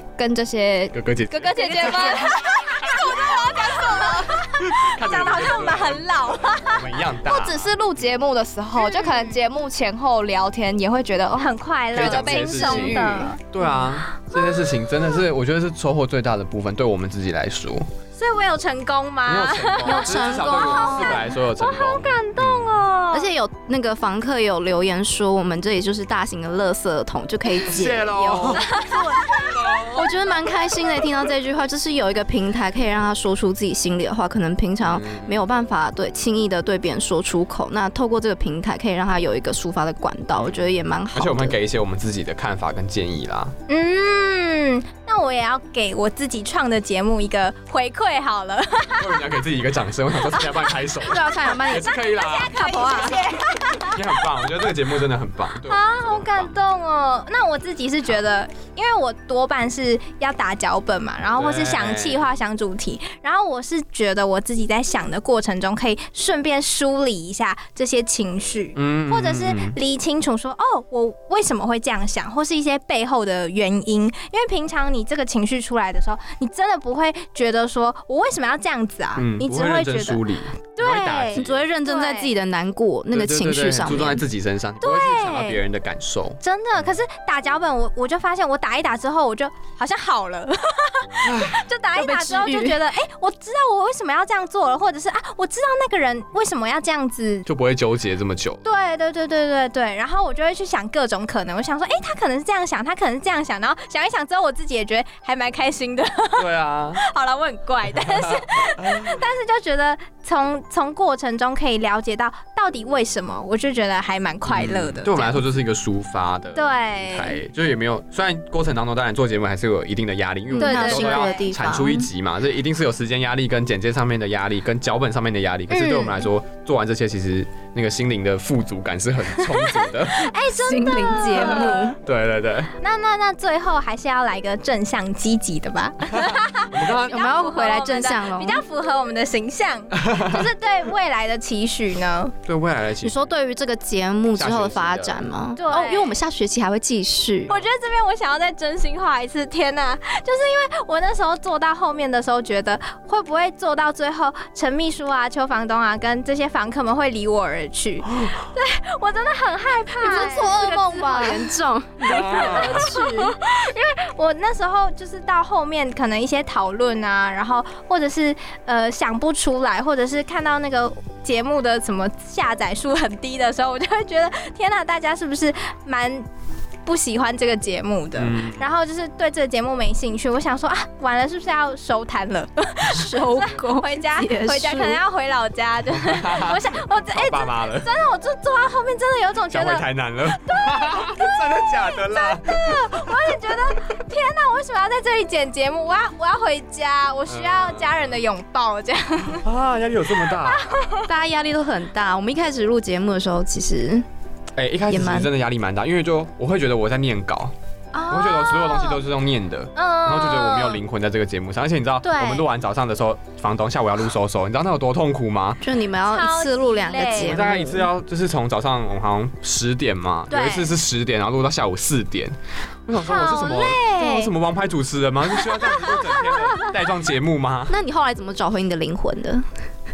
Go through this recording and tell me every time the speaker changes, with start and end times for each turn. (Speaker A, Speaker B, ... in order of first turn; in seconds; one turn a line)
Speaker A: 0.2-4.3
Speaker B: 0.9-2.3
Speaker C: 1.5-6.8
Speaker B: 4.6-7.7
Speaker A: 7.2-13.3
Speaker C: 8.8-9.4
Speaker C: 11.4-13.4
Speaker B: 11.9-17.9
Speaker C: 14.1-14.9
Speaker C: 18.1-23.3
Speaker B: 19.3-22.9
Speaker D: 19.8-21.3
Speaker D: 23.1-28.8
Speaker B: 27.7-28.7
Speaker C: 28.5-29.9
Speaker B: 29.2-30.0
Speaker D: 29.9-41.5
Speaker B: 34.8-35.4
Speaker B: 40.4-43.5
Speaker C: 43.7-49.2
Speaker B: 49.0-52.6
Speaker D: 51.0-53.3
Speaker C: 51.9-54.0
Speaker B: 53.7-56.5
Speaker C: 55.7-80.2
Speaker B: 61.4-62.2
Speaker B: 68.8-69.8
Speaker B: 79.2-81.7
Speaker C: 80.8-82.3
Speaker D: 81.3-84.2
Speaker B: 83.1-86.4
Speaker C: 84.8-85.6
Speaker C: 86.4-97.5
Speaker B: 91.2-91.6
Speaker D: 91.9-92.8
Speaker B: 97.5-98.6
Speaker C: 98.6-115.4
Speaker B: 106.4-107.0
Speaker B: 107.9-109.2
Speaker B: 114.5-130.3
Speaker C: 116.5-117.4
Speaker D: 120.5-122.1
Speaker C: 120.6-121.5
Speaker C: 125.7-126.3
Speaker C: 129.4-131.9
Speaker D: 130.5-132.0
Speaker B: 131.4-132.7
Speaker C: 132.8-142.3
Speaker B: 136.1-137.3
Speaker D: 137.0-138.6
Speaker B: 139.9-140.4
Speaker B: 142.4-143.3
Speaker D: 143.0-147.5
Speaker B: 144.4-145.2
Speaker C: 145.6-146.2
Speaker C: 147.5-161.5
Speaker D: 160.0-163.3
Speaker A: 160.0-161.5
Speaker B: 162.0-162.9
Speaker C: 162.0-176.2
Speaker C: 176.8-189.8
Speaker B: 178.2-178.7
Speaker D: 182.9-185.0
Speaker B: 185.9-187.9
Speaker B: 189.5-193.2
Speaker C: 190.4-199.4
Speaker B: 197.3-198.2
Speaker B: 199.4-200.7
Speaker C: 200.2-201.1
Speaker D: 201.1-204.0
Speaker B: 204.6-207.5
Speaker D: 204.9-205.3
Speaker C: 207.9-209.0
Speaker B: 208.1-215.6
Speaker C: 209.8-210.8
Speaker C: 212.0-212.4
Speaker D: 215.6-217.9
Speaker C: 216.1-217.4
Speaker B: 217.2-222.3
Speaker C: 220.3-220.7
Speaker B: 222.9-227.8
Speaker C: 223.0-224.3
Speaker C: 225.4-226.7
Speaker D: 227.7-229.4